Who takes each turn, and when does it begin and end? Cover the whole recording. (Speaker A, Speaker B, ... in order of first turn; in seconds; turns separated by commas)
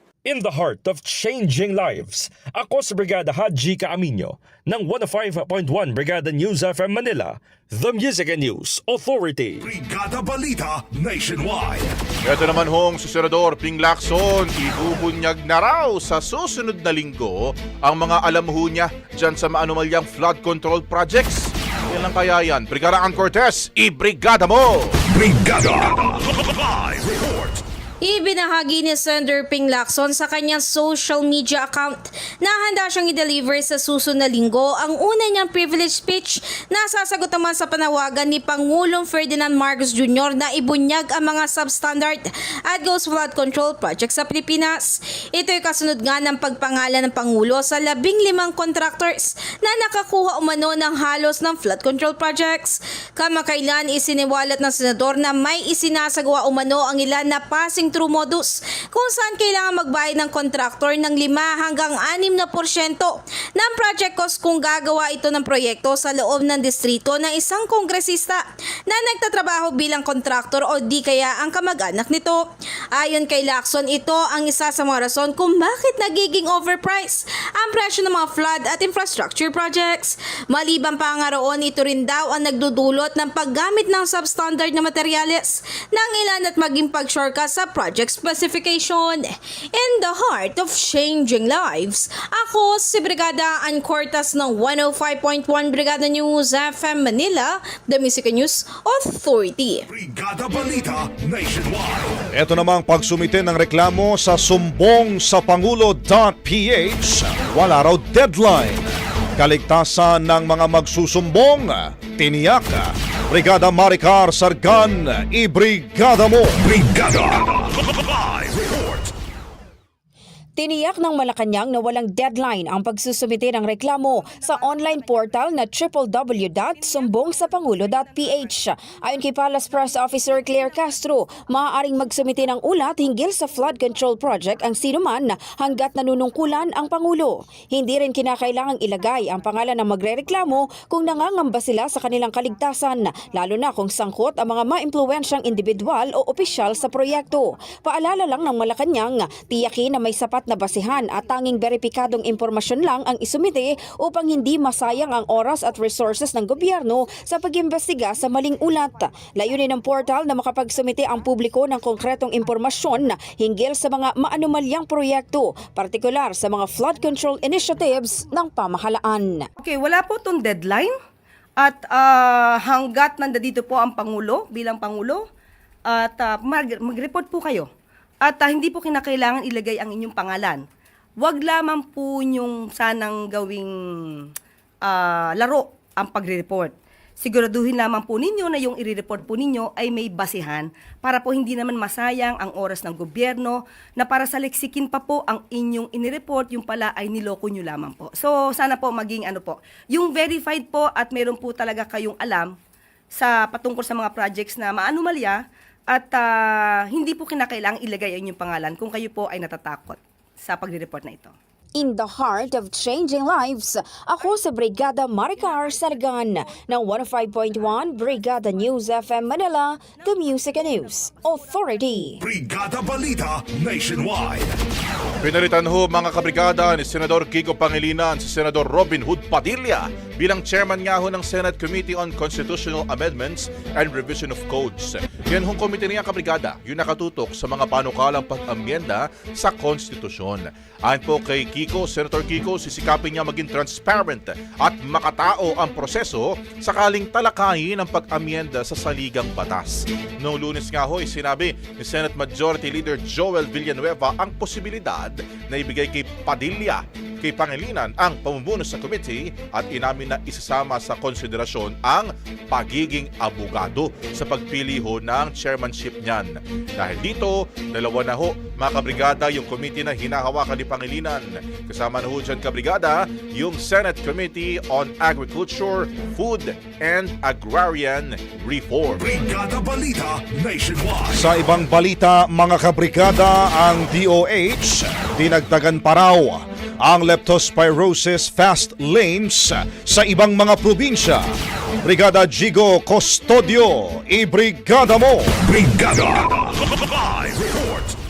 Speaker A: 0.2-9.6, Speaker B: 9.6-11.9, Speaker C: 12.2-24.9, Speaker B: 25.1-27.6, Speaker D: 28.0-72.5, Speaker D: 73.0-99.8, Speaker B: 99.9-102.2, Speaker E: 102.3-116.6, Speaker B: 116.6-119.1, Speaker F: 120.6-169.5, Speaker G: 169.6-170.9, Speaker G: 171.6-175.3, Speaker G: 175.9-177.7, Speaker G: 178.2-180.6, Speaker G: 181.2-184.3, Speaker G: 184.8-202.5, Speaker G: 203.1-211.3, Speaker F: 211.8-222.2, Speaker B: 222.2-224.6, Speaker C: 225.2-279.1, Speaker B: 279.0-281.3, Speaker E: 281.1-291.2, Speaker E: 291.9-295.3, Speaker B: 295.4-297.9